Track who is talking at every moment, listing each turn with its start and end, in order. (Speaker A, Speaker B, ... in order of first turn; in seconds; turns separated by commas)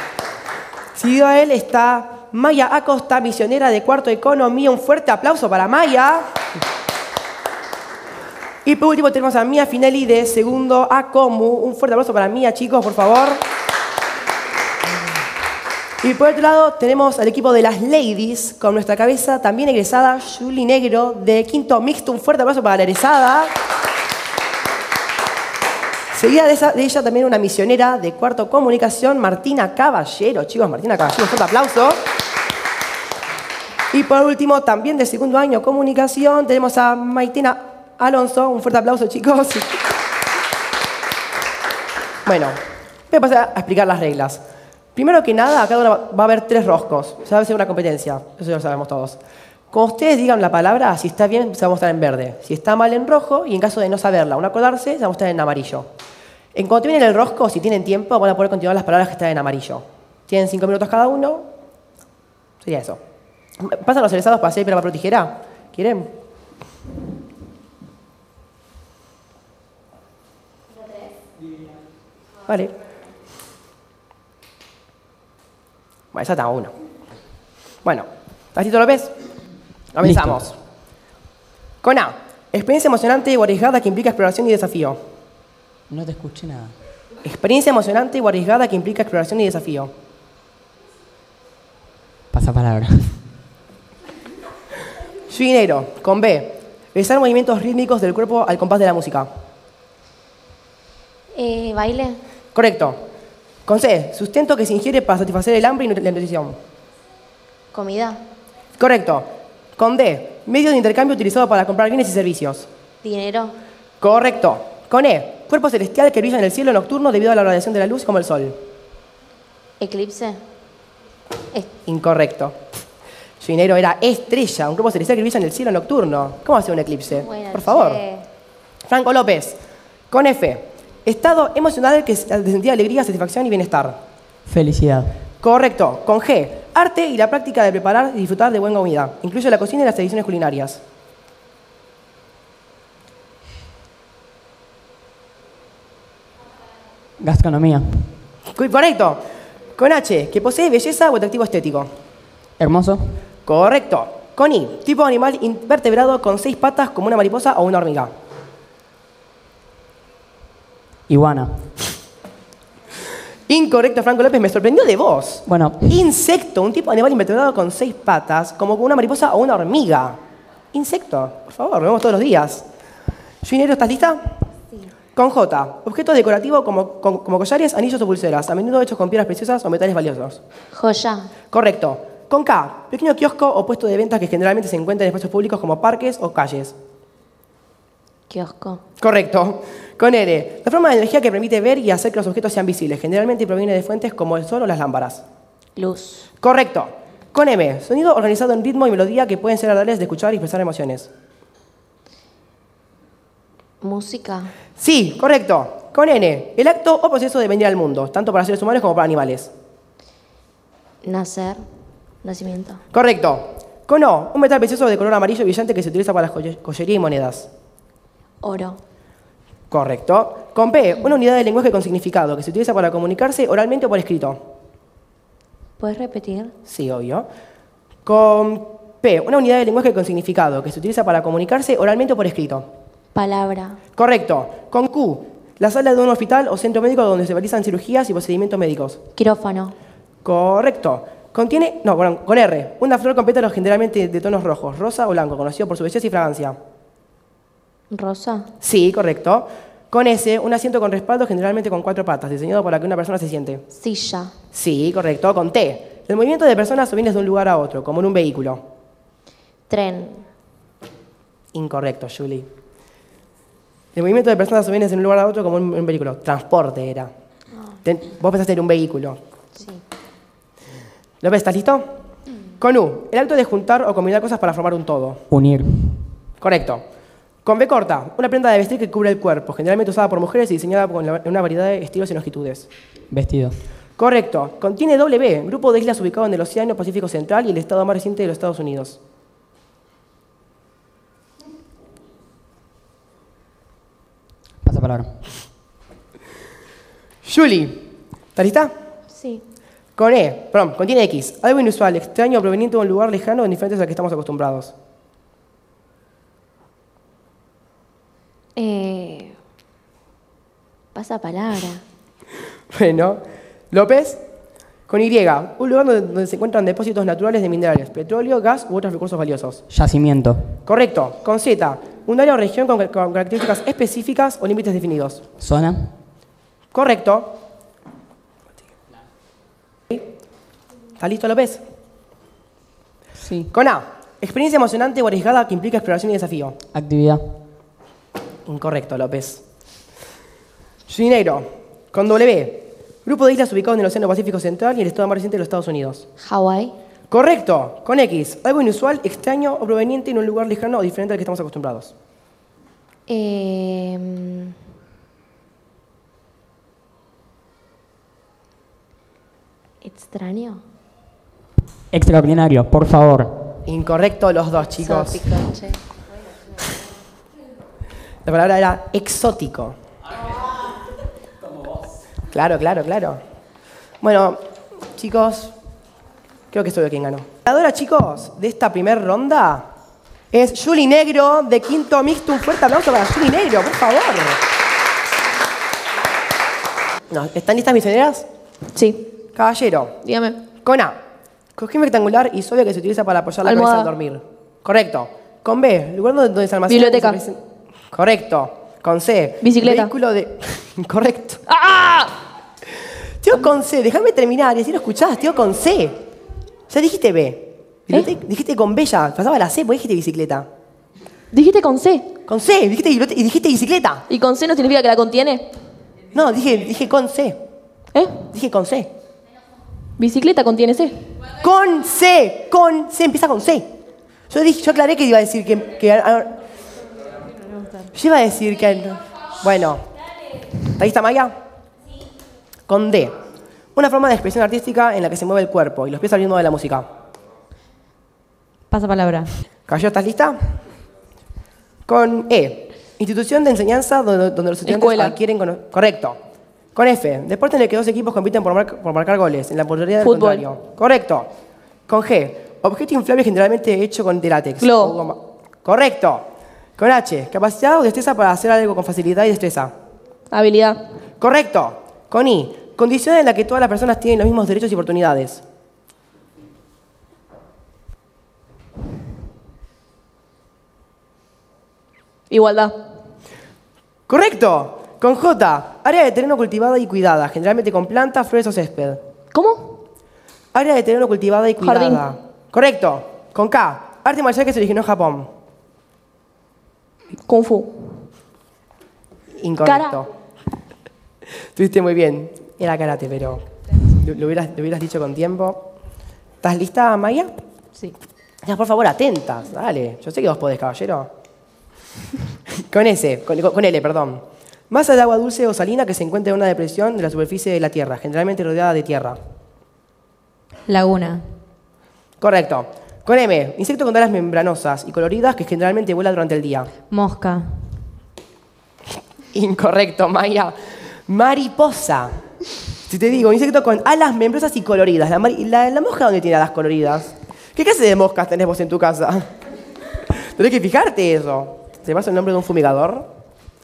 Speaker A: 0.9-6.2, Speaker A: 8.6-13.4, Speaker A: 16.0-23.5, Speaker A: 26.1-32.0, Speaker A: 33.9-39.7, Speaker A: 42.2-42.6, Speaker A: 43.1-44.4, Speaker A: 44.9-49.2, Speaker A: 49.7-55.9, Speaker A: 56.5-61.5, Speaker A: 62.6-63.0, Speaker A: 63.6-66.1, Speaker A: 72.5-72.7, Speaker A: 76.1-76.7, Speaker A: 77.8-79.1, Speaker A: 79.9-80.5, Speaker A: 81.8-85.0, Speaker B: 85.9-86.7, Speaker A: 87.2-89.9, Speaker B: 92.3-92.9, Speaker A: 95.3-99.3, Speaker C: 101.3-102.2, Speaker A: 102.5-103.0, Speaker A: 103.7-106.6, Speaker C: 107.7-108.2, Speaker A: 108.8-112.7, Speaker C: 113.0-113.6, Speaker A: 114.0-118.6, Speaker C: 119.8-120.4, Speaker A: 121.9-122.6, Speaker A: 123.4-128.0, Speaker C: 127.1-128.3, Speaker A: 128.8-129.6, Speaker A: 130.1-134.0, Speaker B: 134.5-134.9, Speaker A: 135.4-140.8, Speaker B: 147.2-148.1, Speaker A: 148.5-149.2, Speaker A: 149.8-151.9, Speaker B: 152.6-153.2, Speaker A: 153.4-158.1, Speaker B: 161.1-161.6, Speaker A: 163.5-170.2, Speaker A: 170.7-172.6, Speaker A: 173.4-174.3, Speaker A: 175.1-180.4, Speaker C: 180.7-181.3, Speaker A: 181.5-186.7, Speaker C: 188.3-188.8, Speaker A: 189.0-195.2, Speaker C: 195.8-196.2, Speaker A: 196.4-201.1, Speaker C: 203.8-204.5, Speaker A: 204.8-209.5, Speaker C: 211.0-211.6, Speaker C: 212.2-212.8, Speaker A: 212.9-217.5, Speaker C: 218.4-218.8, Speaker A: 219.7-224.4, Speaker C: 225.8-226.5, Speaker A: 226.7-227.3, Speaker A: 228.0-232.7, Speaker C: 233.1-233.8, Speaker A: 233.9-239.0, Speaker C: 239.2-239.7, Speaker A: 240.2-246.6, Speaker C: 247.9-248.5, Speaker A: 248.6-253.7, Speaker C: 253.7-254.3, Speaker A: 254.5-258.6, Speaker C: 259.7-260.3, Speaker A: 261.5-262.5, Speaker A: 263.9-267.1, Speaker A: 267.8-269.2, Speaker C: 269.6-269.8, Speaker A: 271.2-271.8, Speaker A: 272.6-275.2, Speaker B: 275.3-275.6, Speaker A: 276.4-276.8, Speaker A: 277.4-282.7, Speaker B: 283.1-283.5, Speaker A: 284.0-289.0, Speaker B: 294.6-295.1, Speaker A: 297.2-298.7, Speaker C: 299.1-299.4, Speaker A: 300.0-304.7, Speaker C: 308.6-309.4, Speaker C: 310.9-311.8, Speaker A: 312.7-314.2, Speaker A: 314.9-319.6, Speaker B: 319.7-320.4, Speaker A: 320.6-325.2, Speaker B: 325.4-325.9, Speaker A: 326.7-327.3, Speaker A: 331.0-331.6, Speaker A: 333.5-336.6, Speaker A: 338.4-339.4, Speaker A: 340.9-346.1, Speaker C: 346.2-346.8, Speaker A: 347.1-351.9, Speaker C: 353.1-354.6, Speaker C: 359.8-360.6, Speaker B: 361.9-363.3, Speaker A: 363.6-365.2, Speaker C: 364.8-365.8, Speaker A: 368.2-369.8, Speaker A: 372.3-373.2, Speaker A: 374.0-374.4, Speaker A: 374.9-375.5, Speaker A: 376.5-379.6, Speaker A: 380.3-384.4, Speaker A: 387.1-388.2, Speaker D: 388.7-389.1, Speaker A: 389.3-389.9, Speaker D: 390.0-390.4, Speaker A: 390.6-391.0, Speaker A: 391.6-397.4, Speaker D: 393.4-393.9, Speaker D: 396.7-397.2, Speaker A: 397.9-401.4, Speaker D: 399.4-399.9, Speaker D: 401.5-402.1, Speaker A: 403.2-406.0, Speaker A: 406.7-410.5, Speaker D: 411.3-412.1, Speaker A: 412.3-414.0, Speaker D: 414.1-415.5, Speaker A: 416.1-417.4, Speaker D: 417.9-418.2, Speaker A: 418.3-418.9, Speaker D: 420.0-421.0, Speaker A: 421.4-423.7, Speaker A: 424.3-426.3, Speaker A: 427.9-429.8, Speaker A: 430.8-431.3, Speaker A: 432.7-433.1, Speaker A: 433.7-436.9, Speaker E: 438.7-439.3, Speaker A: 439.7-440.4, Speaker A: 441.9-446.2, Speaker D: 444.6-445.1, Speaker A: 446.7-451.3, Speaker D: 450.0-450.4, Speaker A: 451.9-456.2, Speaker D: 454.6-454.9, Speaker A: 456.8-459.7, Speaker D: 460.3-460.8, Speaker A: 461.2-465.4, Speaker D: 472.3-472.7, Speaker A: 474.1-479.0, Speaker D: 479.3-479.8, Speaker A: 480.5-485.3, Speaker D: 481.6-482.0, Speaker D: 487.3-488.1, Speaker A: 489.4-490.1, Speaker D: 489.6-490.1, Speaker A: 491.4-495.7, Speaker A: 496.4-497.3, Speaker A: 498.4-501.1, Speaker A: 502.6-509.2, Speaker E: 510.7-511.2, Speaker A: 512.2-516.7, Speaker E: 516.9-517.7, Speaker A: 519.3-520.5, Speaker A: 521.1-522.2, Speaker A: 522.8-529.3, Speaker A: 530.1-533.1